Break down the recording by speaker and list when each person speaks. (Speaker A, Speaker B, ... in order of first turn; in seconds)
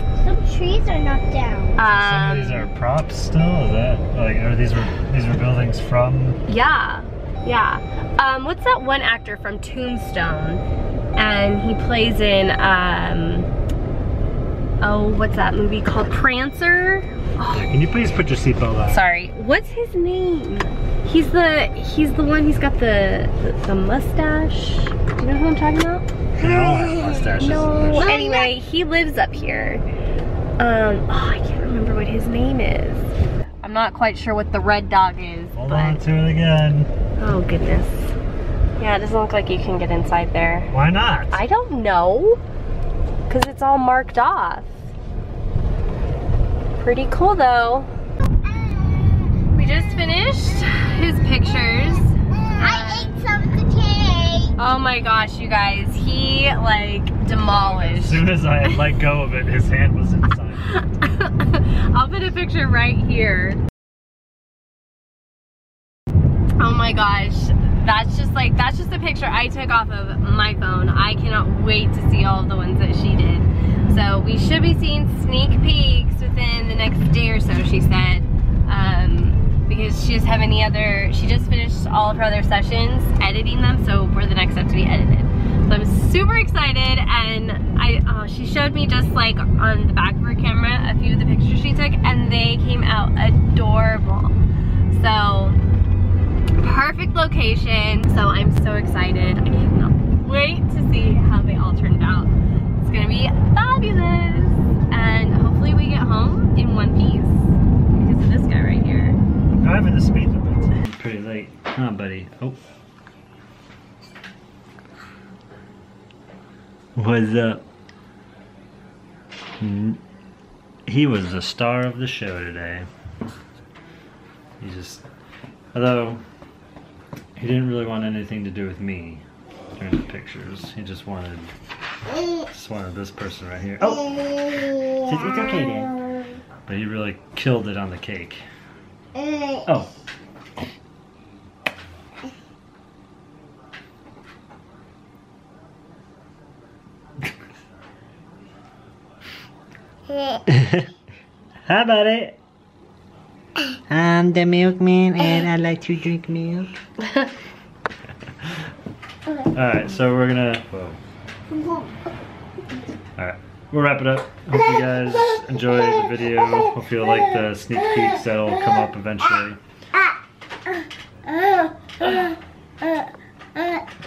Speaker A: 0.2-1.8, 26.8-28.5, 52.5-54.5, 139.2-139.6, 161.5-161.9, 171.3-173.8
Speaker B: 1.8-2.7, 6.5-10.6, 11.2-13.5, 14.8-17.7, 18.9-26.1, 27.4-29.8, 30.6-33.1, 33.6-36.0, 37.2-38.1, 38.8-40.7, 41.3-42.4, 43.3-44.7, 46.8-47.9, 49.5-53.3, 54.6-58.3, 60.6-63.6, 66.6-94.4, 94.9-95.6, 96.6-109.2
Speaker C: 1.9-6.4, 17.5-19.0, 26.4-28.1, 35.5-36.9, 40.7-41.4, 57.5-60.9, 109.5-112.6, 116.9-117.6, 119.6-120.0, 120.9-122.9, 124.6-125.0, 125.7-126.2, 127.3-129.2, 129.8-131.5, 132.5-136.0, 136.7-138.4, 139.6-139.9, 150.5-150.9, 151.6-152.4, 153.9-156.7, 159.5-161.0, 163.2-169.6